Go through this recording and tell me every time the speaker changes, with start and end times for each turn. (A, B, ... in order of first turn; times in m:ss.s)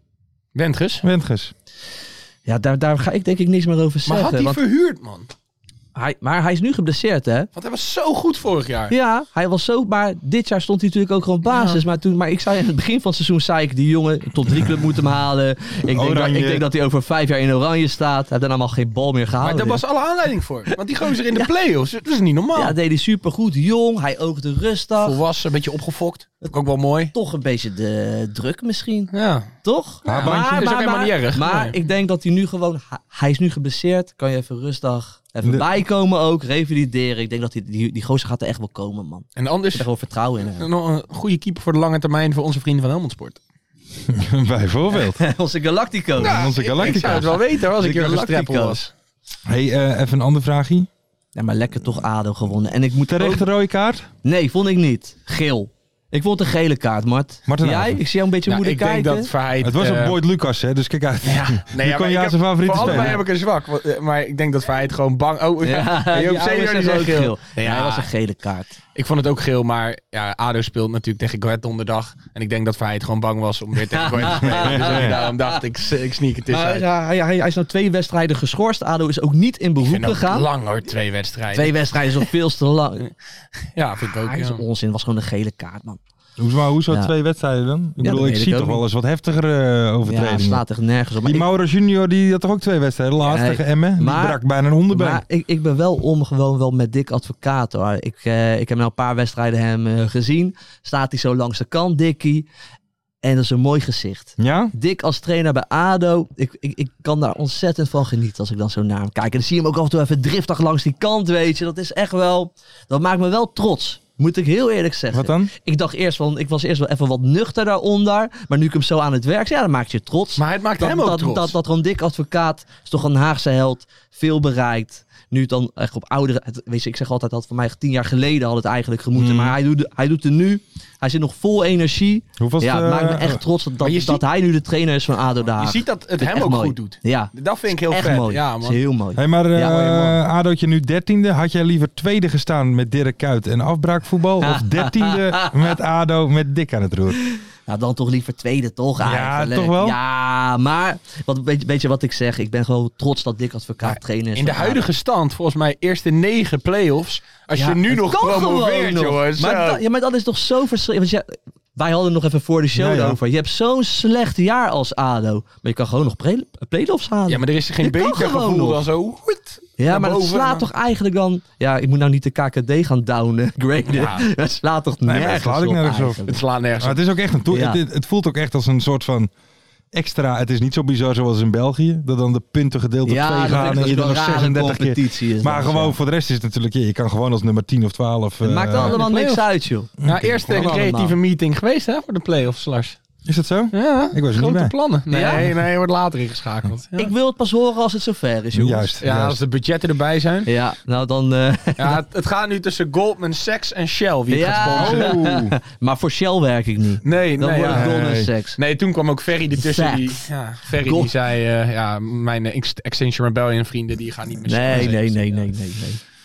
0:00.6-0:01.0 A
0:01.0-0:01.5 B
0:02.5-0:04.6 C
0:04.1-0:05.3 A
0:06.0-0:07.5 C
0:07.6-0:09.0 A
0:08.9-0:19.8 C
0:11.5-0:11.8 A
0:15.9-0:16.7 B
0:19.4-0:22.8 A
0:22.6-0:25.2 C
0:25.0-0:27.1 A
0:27.2-0:29.1 C
0:29.1-0:29.5 A
0:29.6-0:40.7 C
0:30.1-0:30.7 B
0:30.1-0:31.8 A
0:35.4-0:35.7 B
0:39.4-0:39.9 A
0:40.6-0:43.4 A
0:44.1-0:45.2 B
0:45.3-0:48.8 C
0:46.2-0:47.4 B
0:46.2-0:48.9 A
0:49.5-0:50.9 B
0:51.4-0:53.4 C
0:53.1-0:54.1 B
0:54.2-0:59.3 C
0:57.5-0:58.0 B
0:58.5-1:00.2 A
0:59.6-1:03.2 B
1:01.2-1:08.1 A
1:02.8-1:03.2 C
1:05.7-1:08.8 C
1:09.0-1:16.9 A
1:14.0-1:15.6 C
1:14.5-1:15.3 B
1:16.5-1:20.5 C
1:19.8-1:22.3 A
1:21.6-1:23.0 C
1:23.8-1:24.6 A
1:24.3-1:26.0 C
1:26.4-1:30.7 B
1:28.0-1:28.8 C
1:30.1-1:31.4 C
1:31.2-1:35.2 B
1:33.3-1:34.4 C
1:34.9-1:42.5 C
1:43.2-2:17.3 C
1:44.4-1:44.7 B
1:55.1-1:55.5 B
2:00.4-2:01.6 A
2:09.2-2:09.6 B
2:12.4-2:13.4 B
2:13.8-2:14.2 A
2:15.4-2:18.8 A
2:17.8-2:20.1 C
2:19.2-2:27.2 B
2:24.5-2:25.3 C
2:27.7-2:34.8 C
2:29.0-2:30.0 B
2:33.8-2:39.8 A
2:37.6-2:41.2 C
2:41.8-2:48.8 C
2:42.7-2:43.2 B
2:47.3-2:50.7 A
2:49.8-2:56.4 C
2:53.9-2:54.2 A
2:55.0-2:59.3 B
2:56.3-2:57.0 A
2:57.5-2:57.8 C
2:59.9-3:09.0 B
3:03.1-3:05.9 C
3:08.4-3:09.9 C
3:08.8-3:09.4 A
3:10.0-3:10.8 B
3:10.0-3:13.0 A
3:10.5-3:11.2 C
3:13.3-3:14.7 B
3:13.7-3:17.1 A
3:15.1-3:15.4 C
3:17.0-3:18.9 C
3:18.5-3:19.4 B
3:19.0-3:20.5 A
3:20.5-3:21.9 C
3:21.8-3:25.2 A
3:24.3-3:28.6 C
3:24.7-3:25.6 B
3:27.0-3:28.0 A
3:27.6-3:28.3 B
3:28.6-3:35.5 A
3:29.7-3:30.2 C
3:34.5-3:36.0 C